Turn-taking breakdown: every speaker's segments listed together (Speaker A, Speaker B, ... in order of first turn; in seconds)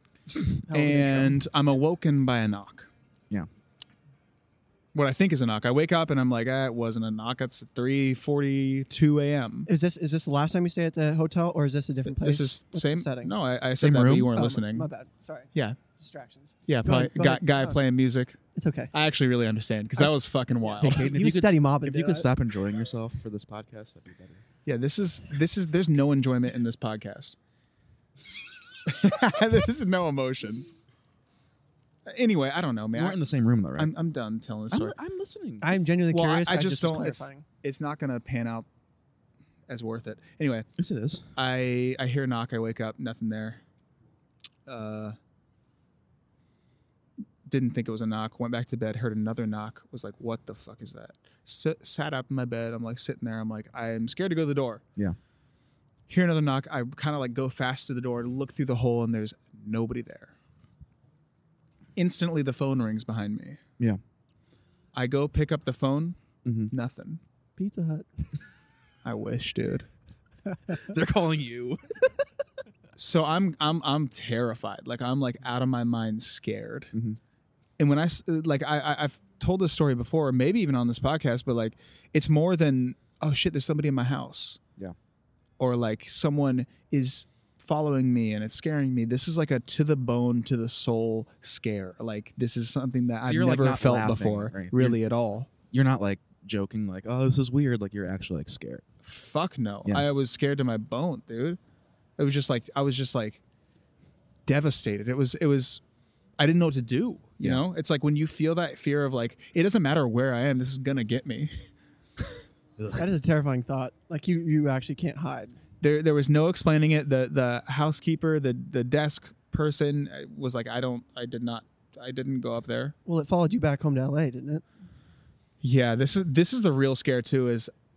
Speaker A: 0.7-1.4, 9.7-13.3, 14.3-17.8, 18.6-18.9, 20.0-22.3, 35.6-37.5, 67.6-68.1, 113.0-115.6, 123.1-124.6
Speaker B: 0.7-2.9, 4.9-9.7, 12.1-14.9, 16.7-18.4, 18.9-21.1, 24.7-27.4, 28.9-30.7, 32.1-33.2, 33.8-35.0, 36.1-38.7, 39.7-40.7, 41.4-43.6, 44.7-45.1, 47.5-54.8, 56.1-60.3, 62.0-63.6, 64.9-66.2, 66.7-67.2, 69.0-69.9, 73.0-76.9, 77.8-84.6, 85.6-95.5, 99.0-101.6, 102.2-103.4, 104.5-105.8, 106.4-111.5, 115.8-123.0, 125.6-127.7
Speaker C: 13.8-14.3, 20.8-24.4, 32.9-33.9, 34.7-35.8, 40.8-41.3, 66.4-66.7, 70.7-72.1, 76.9-77.2, 93.2-95.0, 95.7-98.8, 112.8-113.0